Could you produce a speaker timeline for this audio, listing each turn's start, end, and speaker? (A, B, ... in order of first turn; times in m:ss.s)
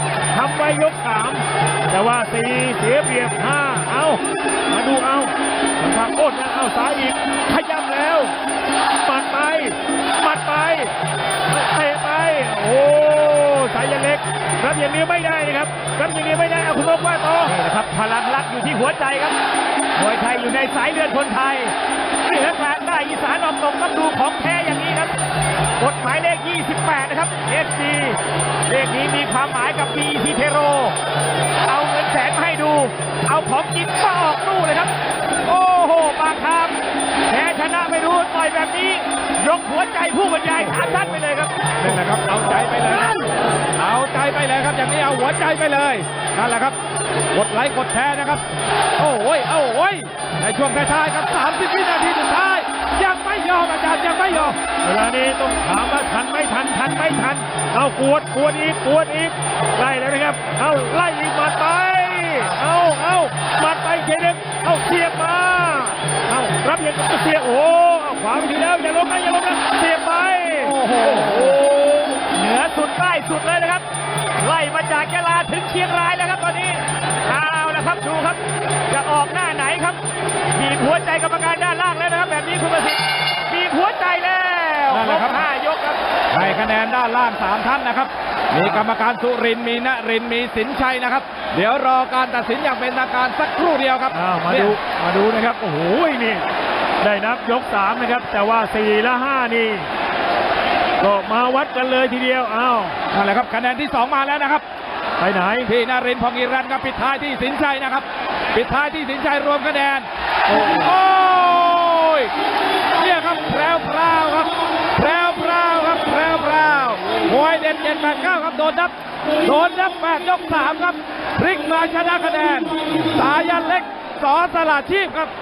0:00.3-0:08.3 A
0:09.0-0:10.9 A
0:11.5-0:17.5 A
0:17.4-0:19.4 B
0:19.9-0:25.2 B
0:25.8-0:30.9 B
0:31.7-0:34.9 B
0:35.4-0:36.8 B
0:37.3-0:41.9 B
0:40.8-0:41.1 C
0:41.8-0:43.2 C
0:43.8-0:46.8 C
0:47.3-0:48.4 C
0:49.0-0:54.6 C
0:54.8-1:10.7 A
1:10.6-1:11.6 C
1:11.0-1:11.5 B
1:12.3-1:13.8 B
1:14.4-1:20.0 B
1:20.5-1:26.0 B
1:24.9-1:25.4 C
1:26.3-1:34.8 C
1:34.1-1:36.4 A
1:37.0-1:39.9 A
1:41.0-1:42.9 A
1:43.1-1:44.6 C
1:45.2-1:45.6 A
1:45.6-1:52.3 C
1:53.0-2:05.3 C